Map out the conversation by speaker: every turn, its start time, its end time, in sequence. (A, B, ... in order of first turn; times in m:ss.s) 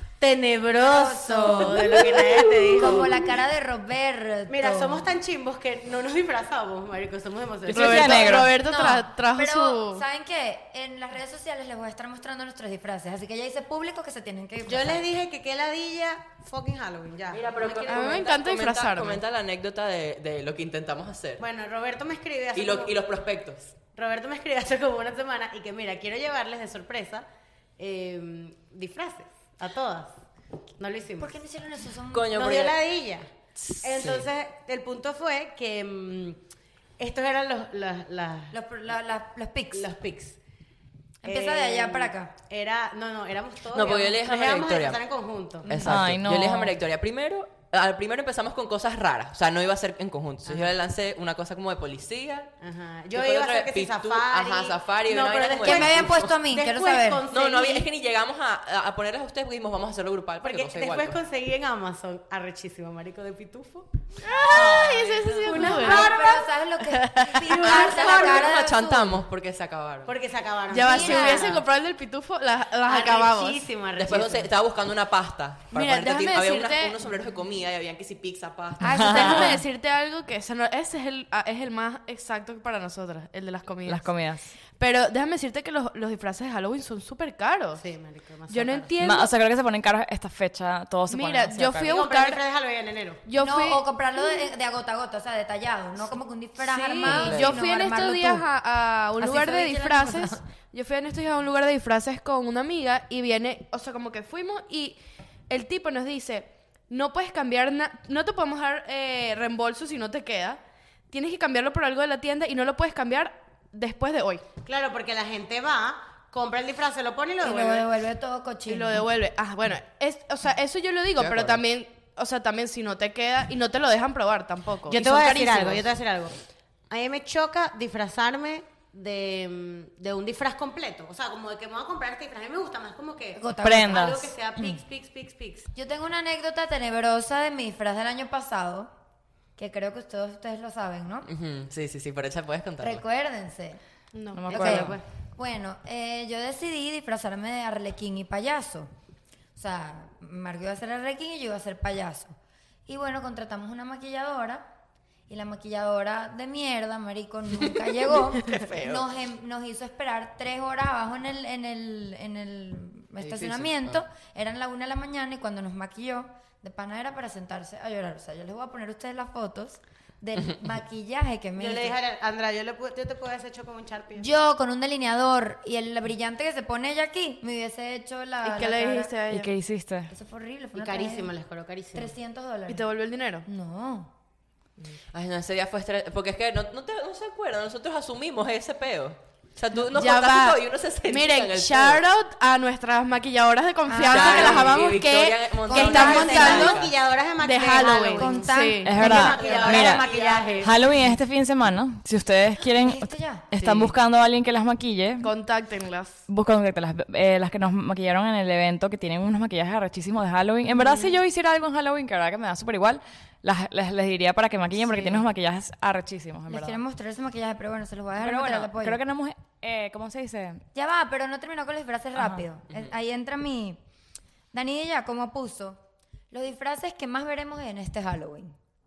0:00.2-0:03.4 A
0:00.8-0:05.1 B
0:04.5-0:08.4 A
0:07.7-0:08.6 C
0:07.7-0:10.0 D
0:08.4-0:15.1 B
0:14.6-0:17.9 A
0:17.3-0:21.4 E
0:17.7-0:19.2 D
0:21.4-0:23.0 A
0:22.6-0:23.8 E
0:23.9-0:27.3 A
0:27.8-0:30.2 A
0:30.8-0:31.4 A
0:31.2-0:32.4 B
0:32.1-0:32.8 E
0:32.3-0:33.3 A
0:33.6-0:34.3 E
0:33.8-0:36.4 A
0:37.0-0:38.6 A
0:38.5-0:39.9 B
0:39.7-0:40.4 A
0:41.2-0:42.3 B
0:41.2-0:45.7 A
0:43.7-0:45.0 E
0:45.6-0:52.5 E
0:45.8-0:46.7 C
0:50.5-0:50.7 A
0:52.6-0:57.9 A
0:53.1-0:56.3 E
0:55.6-0:57.2 B
0:57.3-1:01.2 E
1:00.4-1:03.9 A
1:04.2-1:06.1 D
1:04.5-1:05.4 C
1:05.4-1:06.5 A
1:05.5-1:09.2 B
1:06.8-1:07.5 D
1:07.4-1:08.6 A
1:07.7-1:10.1 E
1:10.0-1:11.6 A
1:10.7-1:13.6 D
1:10.8-1:11.6 B
1:12.9-1:14.5 A
1:14.0-1:19.4 E
1:15.7-1:17.0 D
1:18.8-1:19.6 B
1:18.9-1:19.5 C
1:19.0-1:27.8 D
1:23.9-1:24.6 C
1:27.8-1:28.9 A
1:28.5-1:29.3 D
1:29.0-1:32.0 C
1:31.1-1:32.4 D
1:31.8-1:33.2 A
1:33.3-1:33.8 D
1:33.4-1:38.5 B
1:36.6-1:54.4 D
1:37.0-1:37.6 E
1:39.2-1:40.4 B
1:54.6-1:57.9 A
1:57.4-1:59.0 B
1:58.7-2:05.9 D
2:01.2-2:01.6 E
2:04.9-2:06.4 A
2:06.9-2:15.7 A
2:13.4-2:14.8 B
2:13.6-2:14.3 C
2:15.8-2:18.9 B
2:19.6-2:21.3 B
2:21.3-2:23.0 E
2:22.8-2:23.8 B
2:24.1-2:24.6 D
2:24.3-2:25.0 C
2:24.5-2:25.0 A
2:24.5-2:28.9 B
2:29.6-2:32.4 B
2:32.9-2:34.7 B
2:35.3-2:52.0 B
2:37.5-2:39.1 E
2:43.2-2:44.0 E
2:51.6-2:54.3 A
2:54.2-2:59.1 B
2:58.4-2:59.5 D
2:59.3-3:00.1 C
3:00.1-3:01.3 B
3:00.8-3:02.1 A
3:01.9-3:02.8 B
3:02.7-3:03.5 D
3:03.4-3:04.1 B
3:05.1-3:12.1 E
3:09.9-3:16.8 D
3:13.9-3:14.8 B
3:14.0-3:16.9 E
3:14.3-3:15.0 A
3:15.7-3:16.8 B
3:15.7-3:20.8 A
3:17.4-3:19.0 D
3:18.2-3:19.8 B
3:18.8-3:20.1 C
3:19.0-3:20.5 E
3:20.6-3:25.3 C
3:22.8-3:23.5 B
3:23.6-3:23.9 E
3:25.2-3:26.2 D
3:26.3-3:36.8 C
3:34.8-3:35.3 B
3:36.5-3:39.0 B
3:38.2-3:40.6 C
3:40.7-3:43.8 B
3:42.2-3:42.5 C
3:44.5-3:45.8 B
3:46.3-3:48.6 B